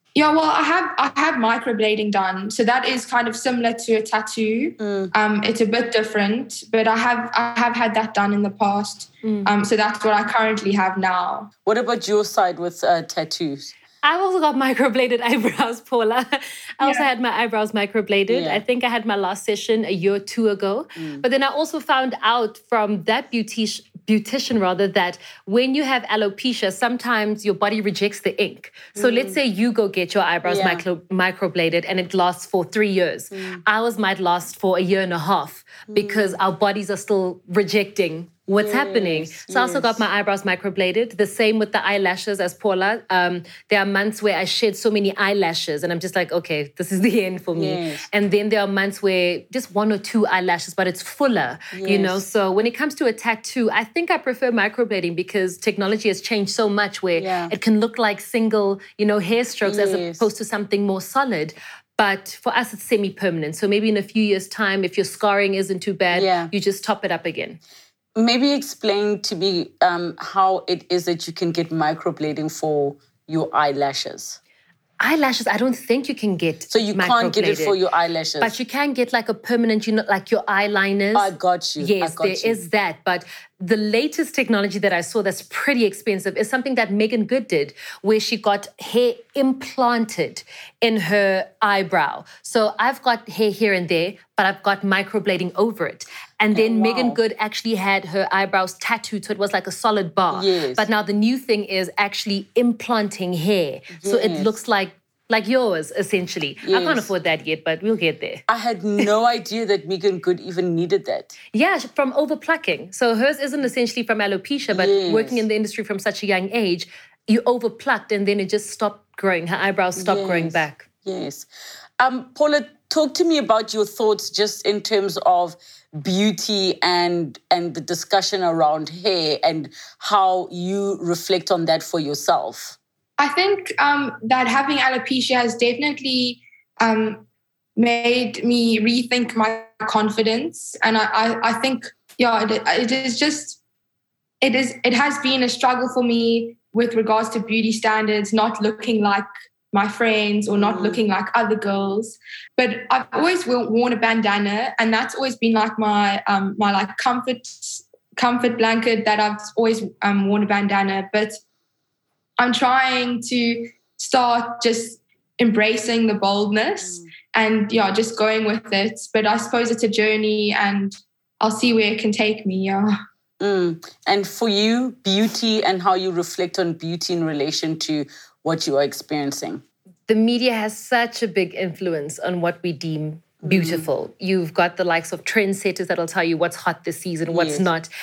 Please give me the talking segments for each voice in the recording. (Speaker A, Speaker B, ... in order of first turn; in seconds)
Speaker A: 0.1-11.5, 133.2-137.2, 137.8-143.6, 144.4-161.4, 162.4-172.9
Speaker B: 4.8-5.1, 11.7-13.7, 18.3-18.6, 21.0-21.2, 28.9-29.4, 30.4-30.8, 33.3-33.6, 35.9-36.4, 38.5-40.0, 47.6-48.1, 51.7-52.2, 57.2-57.5, 59.6-60.3, 66.1-66.5, 68.2-74.4, 76.7-78.6, 81.2-82.6, 96.5-97.2, 100.3-100.9, 104.0-104.5, 106.6-107.1, 108.5-111.4, 114.7-115.4, 120.0-121.5, 122.0-132.8, 150.6-151.0, 173.4-179.6, 183.4-183.9, 187.3-187.7
Speaker C: 9.2-9.5, 14.0-67.6, 75.0-77.8, 78.4-108.4, 111.5-120.9, 180.1-187.9